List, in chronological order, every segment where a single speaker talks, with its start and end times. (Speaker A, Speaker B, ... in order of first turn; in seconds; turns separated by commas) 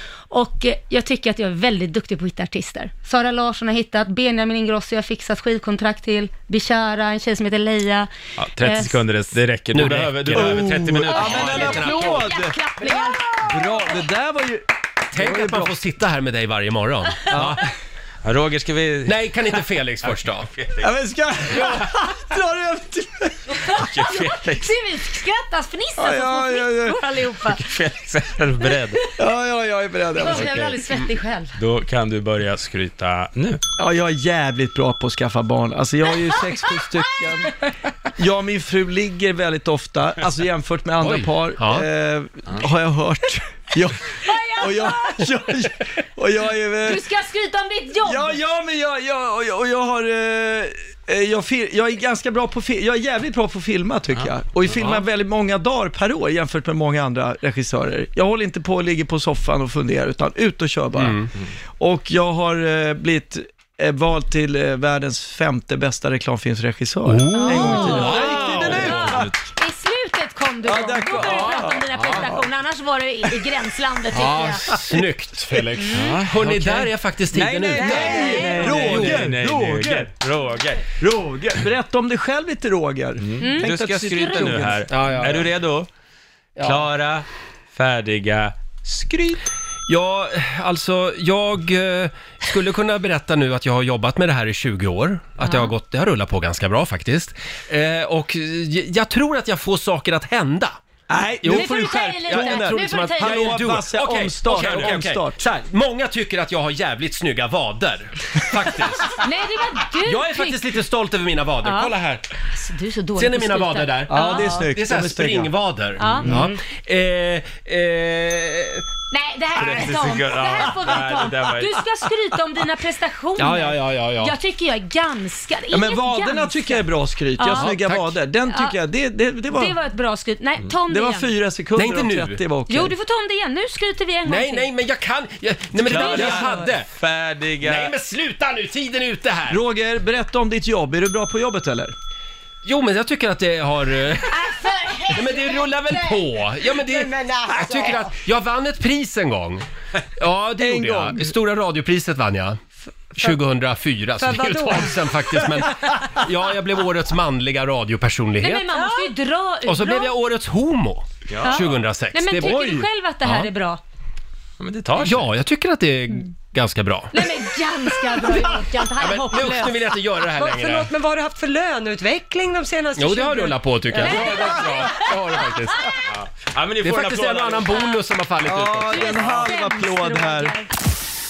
Speaker A: 0.3-8.1, Speaker B: 8.4-12.2, Speaker A: 8.6-9.0, Speaker C: 9.7-12.3, Speaker D: 10.3-15.8, Speaker A: 11.1-14.0, Speaker C: 15.1-17.7, Speaker D: 17.3-17.7, Speaker B: 18.2-20.9, Speaker C: 19.1-20.5, Speaker D: 20.8-23.6, Speaker B: 21.6-21.8, Speaker A: 23.6-27.6, Speaker B: 23.8-24.8, Speaker D: 26.0-27.0, Speaker B: 27.5-29.0, Speaker A: 28.7-29.2, Speaker D: 29.2-30.8, Speaker A: 30.1-31.6, Speaker B: 30.4-30.8, Speaker B: 31.6-33.6, Speaker D: 33.8-37.6, Speaker D: 38.2-47.0, Speaker C: 41.0-41.9, Speaker A: 44.2-45.3, Speaker A: 46.9-48.4, Speaker D: 48.0-61.2, Speaker C: 54.7-55.0, Speaker C: 61.0-61.3, Speaker D: 61.8-69.3, Speaker C: 67.1-69.2, Speaker A: 67.3-74.8, Speaker B: 68.3-69.4, Speaker D: 70.6-72.4, Speaker C: 71.5-72.2, Speaker C: 74.1-79.3, Speaker A: 75.8-76.2, Speaker B: 75.9-80.8, Speaker D: 77.8-80.1, Speaker A: 77.9-78.7, Speaker D: 81.0-85.2, Speaker B: 83.2-85.9, Speaker A: 83.4-84.6, Speaker C: 84.9-85.5, Speaker C: 86.6-86.8, Speaker B: 86.6-89.4, Speaker C: 89.9-100.8, Speaker A: 95.4-95.7, Speaker D: 101.1-105.5, Speaker C: 101.4-109.3, Speaker A: 101.5-103.6, Speaker A: 109.2-110.7, Speaker C: 110.0-112.3, Speaker A: 111.6-111.9, Speaker A: 112.5-114.7, Speaker C: 113.2-118.9, Speaker D: 114.1-115.5, Speaker A: 116.0-116.3, Speaker D: 116.1-116.5, Speaker A: 119.1-126.9, Speaker B: 119.5-121.8, Speaker C: 123.4-124.3, Speaker D: 125.7-129.8, Speaker A: 127.4-127.7, Speaker C: 127.5-128.2, Speaker A: 128.5-128.8, Speaker A: 129.5-131.3, Speaker D: 130.9-132.9, Speaker C: 131.8-132.4, Speaker A: 132.7-134.7, Speaker C: 134.3-136.9, Speaker A: 135.9-136.7, Speaker B: 135.9-137.9, Speaker C: 137.6-139.6, Speaker D: 139.5-141.9, Speaker C: 142.6-149.6, Speaker A: 144.3-146.2, Speaker A: 146.9-148.0, Speaker C: 150.2-152.6, Speaker D: 150.6-151.3, Speaker C: 153.1-158.7, Speaker E: 154.2-154.6, Speaker A: 154.3-154.8, Speaker A: 158.4-160.1, Speaker C: 159.7-162.7, Speaker B: 161.3-161.7, Speaker A: 161.4-163.8, Speaker D: 162.4-162.9, Speaker C: 163.2-163.5, Speaker B: 164.6-165.3, Speaker C: 165.0-167.3, Speaker A: 167.1-170.0, Speaker E: 168.3-168.6, Speaker C: 169.0-170.9, Speaker E: 170.3-173.6, Speaker C: 173.0-175.9, Speaker A: 173.9-175.9, Speaker B: 174.1-174.8, Speaker B: 176.1-177.8, Speaker C: 176.8-179.2, Speaker A: 177.7-178.0, Speaker D: 178.4-180.6, Speaker A: 178.9-180.7, Speaker B: 179.2-179.5